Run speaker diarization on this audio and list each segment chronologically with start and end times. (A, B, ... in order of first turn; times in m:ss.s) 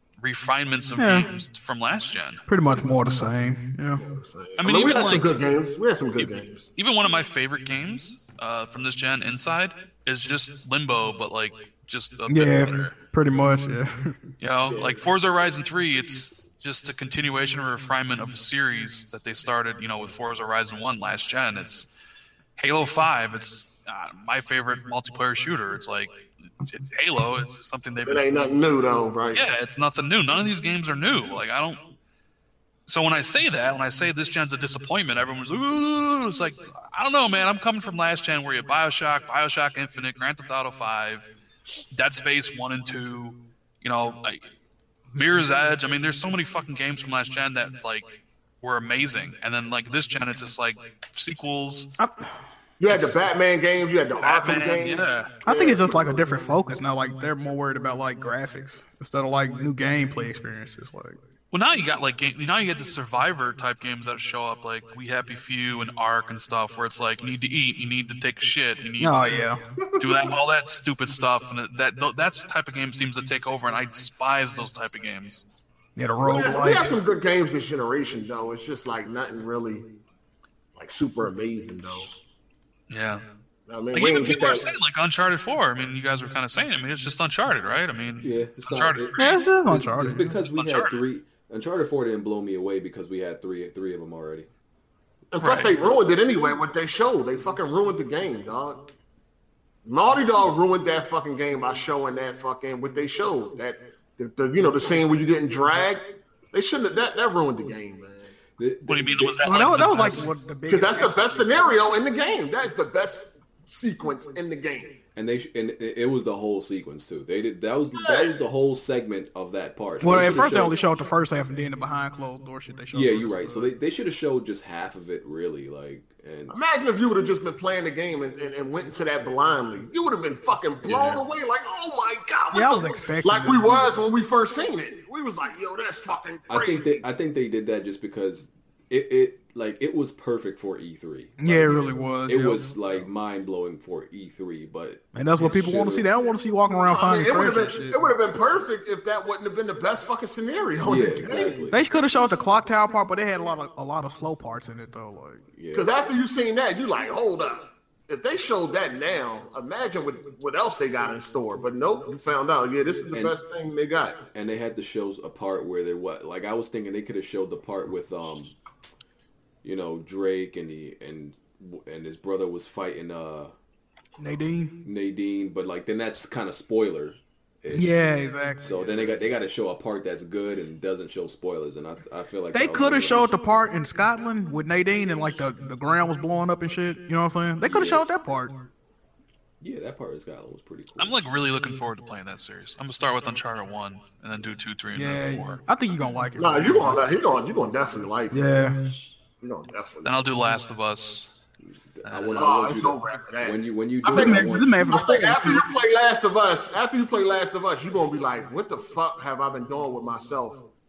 0:00.2-0:02.4 A
0:01.0-0:01.3 B
0:02.5-0:04.0 B
0:04.0-0:06.7 C
0:04.6-0:05.5 A
0:06.2-0:13.0 A
0:12.3-0:14.2 B
0:14.4-0:21.9 A
0:22.6-0:28.3 A
0:28.0-0:29.4 C
0:29.3-0:31.8 A
0:32.9-0:41.3 A
0:41.9-0:44.5 A
0:45.1-0:51.9 A
0:52.0-0:52.3 B
0:52.8-0:56.2 C
0:52.9-0:53.2 A
0:54.2-0:55.4 A
0:55.4-1:01.2 B
1:01.5-1:09.4 A
1:09.0-1:09.6 B
1:10.0-1:15.4 A
1:16.0-1:16.9 B
1:16.2-1:19.9 C
1:20.7-1:22.1 C
1:22.9-1:23.2 A
1:23.7-1:24.7 C
1:23.9-1:29.4 A
1:28.2-1:34.5 D
1:29.2-1:30.3 B
1:30.4-1:30.9 A
1:35.3-1:38.8 C
1:35.4-1:35.7 A
1:39.8-1:48.3 C
1:48.6-1:50.2 D
1:48.8-1:50.3 A
1:49.4-1:51.6 B
1:50.7-1:55.0 C
1:55.1-2:00.8 D
1:58.0-1:58.3 C
2:00.0-2:03.7 B
2:02.9-2:06.6 D
2:06.5-2:17.0 C
2:10.8-2:11.2 D
2:12.5-2:13.7 B
2:16.5-2:26.0 D
2:21.4-2:22.7 B
2:25.1-2:28.0 B
2:26.8-2:31.7 C
2:30.8-2:31.8 D
2:31.7-2:35.4 B
2:35.5-2:35.9 D
2:35.7-2:44.2 C
2:44.3-2:48.5 D
2:49.6-2:53.5 D
2:54.2-2:54.7 B
2:54.8-2:58.0 D
2:57.7-2:59.0 B
2:58.6-3:03.3 D
3:02.5-3:08.5 B
3:07.6-3:08.1 D
3:09.6-3:11.2 D
3:11.0-3:15.6 A
3:14.9-3:17.1 B
3:16.4-3:18.6 C
3:18.3-3:18.8 B
3:19.4-3:20.1 C
3:20.0-3:21.4 A
3:21.9-3:25.0 D
3:22.0-3:22.5 A
3:22.4-3:30.6 C
3:24.0-3:25.6 B